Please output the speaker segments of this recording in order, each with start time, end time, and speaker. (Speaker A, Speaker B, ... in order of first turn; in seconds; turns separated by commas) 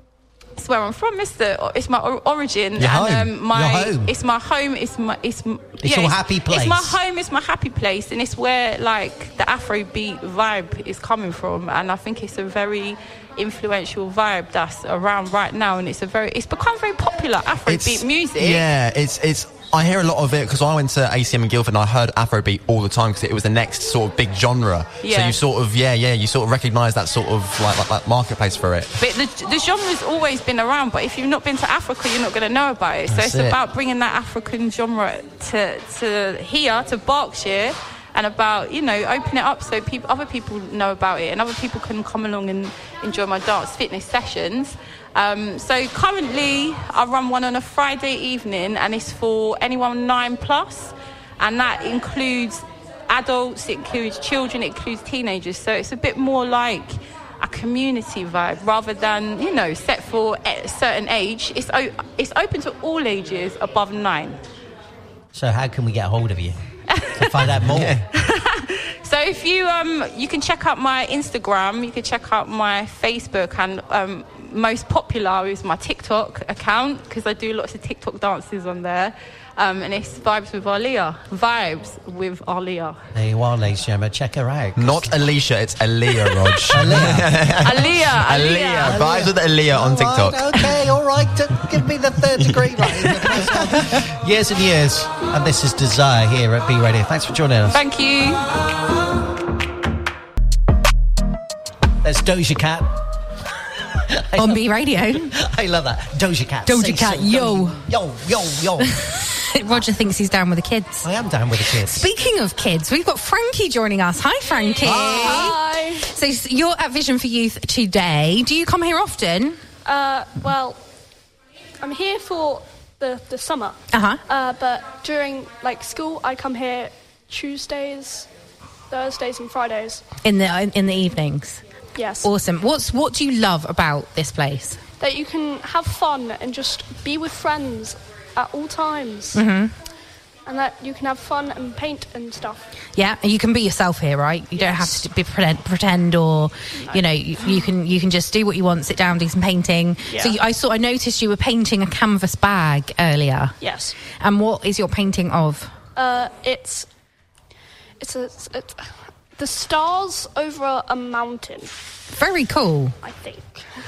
Speaker A: 0.6-18.6, Speaker B: 2.8-4.1, Speaker B: 5.8-7.0, Speaker C: 17.6-28.9, Speaker A: 25.0-25.4, Speaker A: 29.0-64.4, Speaker C: 33.1-33.5, Speaker B: 65.3-66.6, Speaker A: 66.9-67.4, Speaker B: 67.2-68.0, Speaker C: 67.6-68.0, Speaker A: 68.1-83.0, Speaker B: 83.1-85.1, Speaker C: 84.8-90.5, Speaker B: 86.7-87.8, Speaker A: 87.6-89.0, Speaker B: 88.8-97.8, Speaker A: 97.7-98.5, Speaker B: 102.0-102.9, Speaker B: 104.1-104.6, Speaker D: 104.4-105.3, Speaker B: 105.2-108.9, Speaker D: 106.7-107.8, Speaker D: 108.8-111.1, Speaker B: 111.0-112.1, Speaker D: 111.8-119.6, Speaker B: 114.8-115.5, Speaker E: 115.0-116.1, Speaker E: 119.8-120.8, Speaker E: 121.8-128.3, Speaker D: 123.9-124.2, Speaker E: 128.9-130.0, Speaker D: 130.2-131.6, Speaker E: 131.9-132.3, Speaker D: 132.2-134.8, Speaker E: 135.0-139.4, Speaker D: 139.3-139.7, Speaker E: 140.4-142.7, Speaker D: 142.9-153.6, Speaker E: 144.5-145.0, Speaker E: 146.7-147.6, Speaker E: 150.0-150.4, Speaker E: 153.6-153.9, Speaker D: 154.1-155.7, Speaker E: 155.9-156.9, Speaker E: 158.0-161.8, Speaker D: 162.1-162.9, Speaker E: 163.0-163.7